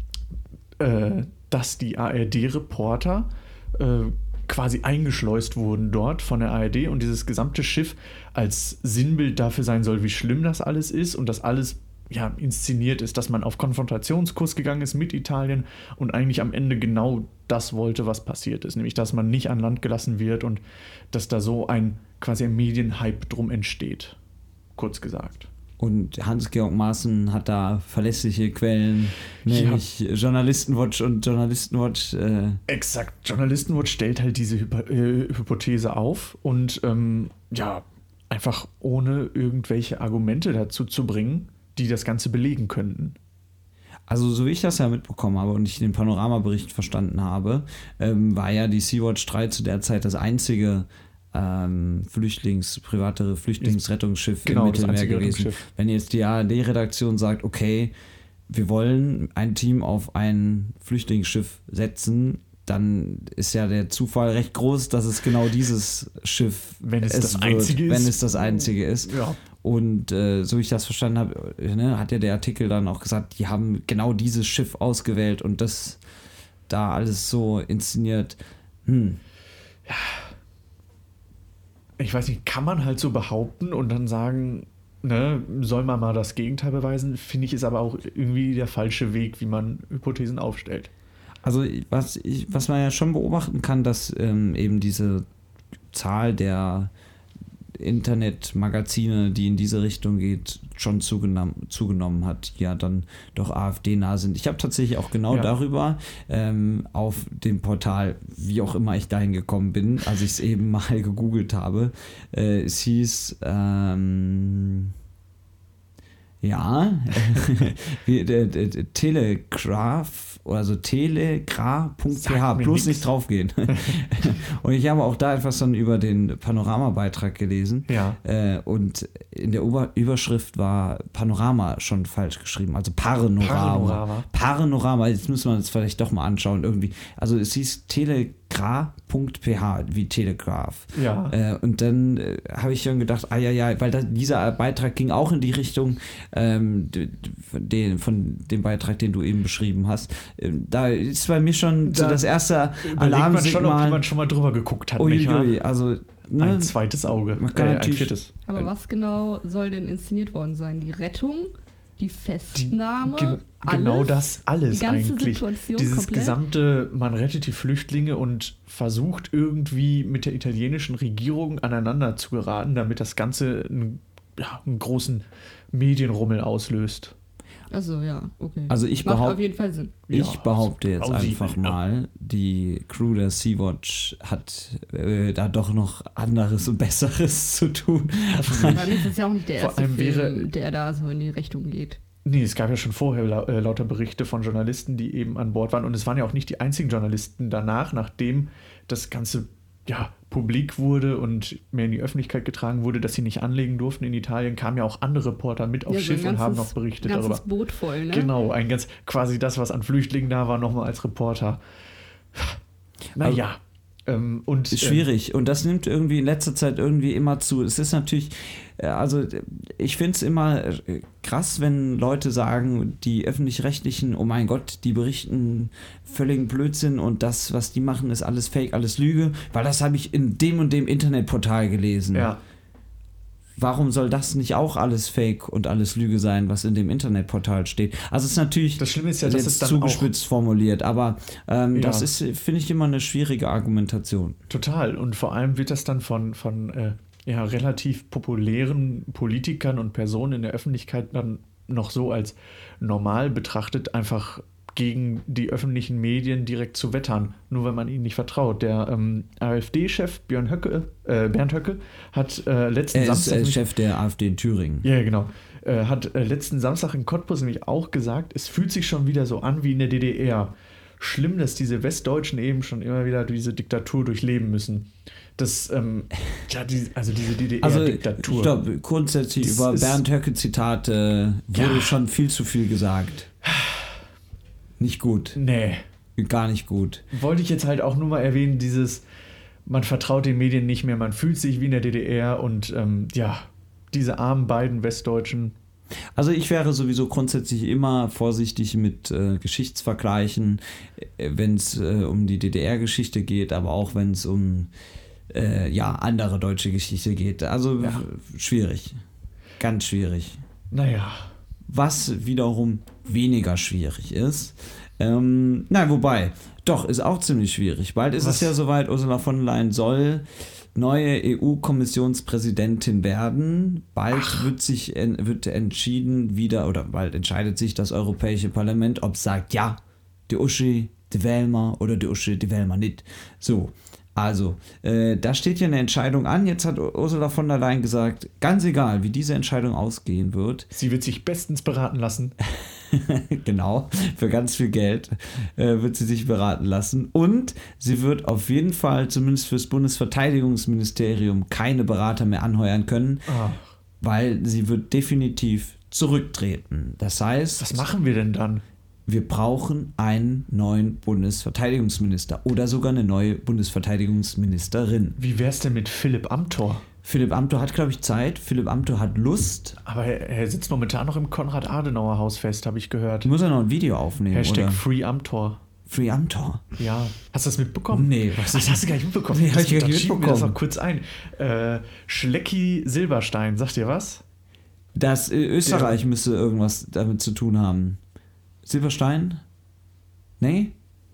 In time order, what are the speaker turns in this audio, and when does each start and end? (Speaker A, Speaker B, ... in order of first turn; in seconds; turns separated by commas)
Speaker A: 0.8-20.6, Speaker A: 21.1-24.2, Speaker A: 24.8-25.5, Speaker B: 25.8-32.6, Speaker A: 29.5-29.8, Speaker A: 32.7-43.2, Speaker B: 44.1-57.9, Speaker A: 54.4-55.7, Speaker B: 58.5-76.0, Speaker A: 66.8-69.4, Speaker B: 76.7-79.2, Speaker A: 79.9-80.3, Speaker A: 82.0-90.9, Speaker B: 91.4-95.3, Speaker B: 95.9-96.9, Speaker B: 97.8-114.9, Speaker A: 105.3-105.5, Speaker B: 116.4-154.0, Speaker A: 122.1-123.1, Speaker A: 123.7-124.0, Speaker A: 127.9-128.2, Speaker A: 133.4-134.3, Speaker A: 140.9-141.4, Speaker A: 151.8-152.3, Speaker A: 152.8-155.6, Speaker B: 155.0-156.8, Speaker A: 156.4-158.3, Speaker B: 157.3-158.7, Speaker C: 158.5-166.4, Speaker A: 162.5-177.1, Speaker C: 177.7-180.0, Speaker B: 178.7-179.4, Speaker A: 180.1-181.8, Speaker B: 180.1-189.1, Speaker A: 188.4-189.0, Speaker C: 188.7-192.0, Speaker A: 189.6-190.5, Speaker A: 192.2-207.4, Speaker C: 205.9-208.3, Speaker A: 208.1-211.6, Speaker A: 213.2-215.1, Speaker B: 214.7-232.3, Speaker A: 232.1-232.4, Speaker B: 233.6-244.4, Speaker A: 238.8-240.1, Speaker A: 241.7-242.1, Speaker A: 244.5-263.6, Speaker B: 262.9-264.9, Speaker A: 264.8-278.6, Speaker B: 277.6-283.3, Speaker A: 279.4-280.0, Speaker A: 281.5-282.0, Speaker A: 283.4-283.9, Speaker B: 284.8-285.4, Speaker A: 285.4-285.8, Speaker B: 286.2-287.1, Speaker A: 287.1-289.1, Speaker A: 289.7-295.6, Speaker B: 296.1-304.7, Speaker B: 305.3-309.0, Speaker A: 307.8-308.1, Speaker B: 309.6-310.4, Speaker A: 310.7-311.3, Speaker B: 311.7-340.7, Speaker A: 318.2-318.5, Speaker A: 324.1-324.5, Speaker A: 340.7-342.3, Speaker B: 342.5-353.3, Speaker A: 353.3-353.7, Speaker B: 354.0-357.9, Speaker A: 357.6-358.6, Speaker B: 359.1-365.2, Speaker A: 365.2-366.9, Speaker B: 367.0-369.8, Speaker A: 369.8-373.3, Speaker B: 373.2-374.8, Speaker A: 374.3-375.6, Speaker B: 375.9-376.6, Speaker A: 376.8-384.2, Speaker B: 377.9-380.6, Speaker B: 384.9-388.0, Speaker A: 385.6-386.0, Speaker B: 388.6-389.4, Speaker B: 390.4-390.8